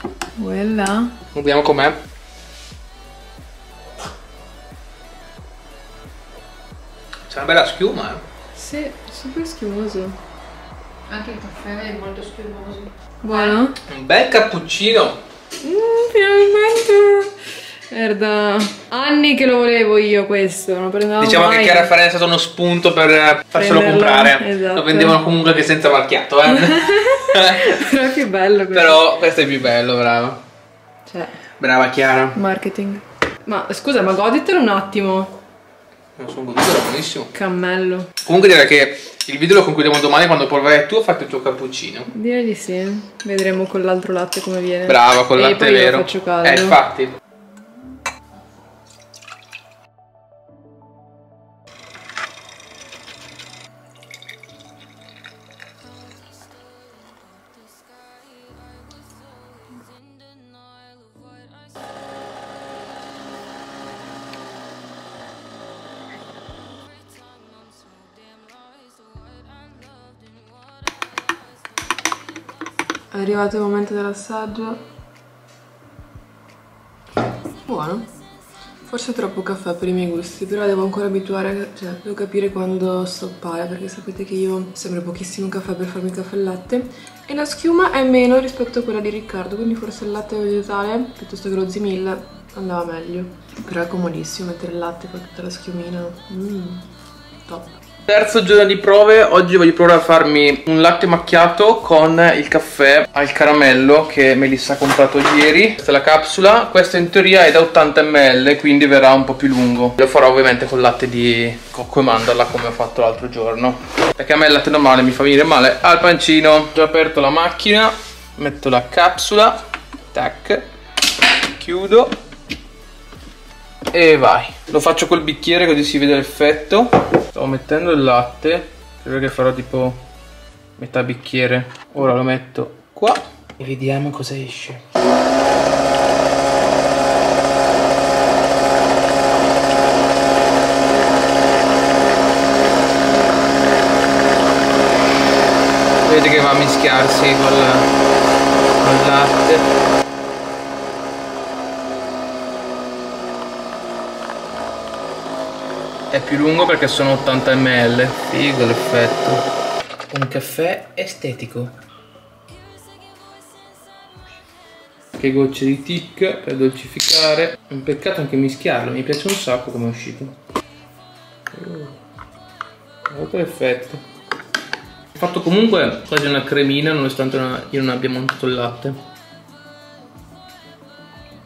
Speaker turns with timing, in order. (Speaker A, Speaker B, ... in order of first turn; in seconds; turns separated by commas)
Speaker A: 0.4-1.1, Speaker B: 1.3-2.0, Speaker B: 7.3-8.2, Speaker A: 8.6-10.2, Speaker C: 11.1-13.6, Speaker A: 13.2-13.8, Speaker B: 13.9-15.2, Speaker A: 15.6-17.3, Speaker A: 17.9-21.9, Speaker B: 21.2-27.8, Speaker A: 23.5-25.2, Speaker A: 26.4-29.0, Speaker B: 28.7-30.4, Speaker A: 31.1-31.3, Speaker B: 31.6-32.4, Speaker A: 32.3-35.4, Speaker B: 36.2-37.3, Speaker A: 37.3-38.1, Speaker B: 38.2-42.1, Speaker A: 42.1-46.8, Speaker B: 44.9-47.1, Speaker A: 73.1-74.8, Speaker A: 77.6-78.1, Speaker A: 78.8-96.8, Speaker A: 97.5-97.8, Speaker B: 98.1-119.6, Speaker B: 120.1-120.7, Speaker B: 121.5-122.1, Speaker B: 123.9-130.0, Speaker B: 130.8-134.8, Speaker B: 146.0-147.9, Speaker B: 148.8-149.7, Speaker B: 156.1-159.4, Speaker B: 160.1-161.8, Speaker B: 165.2-170.3, Speaker B: 171.5-172.0, Speaker B: 173.1-174.0, Speaker B: 175.1-178.9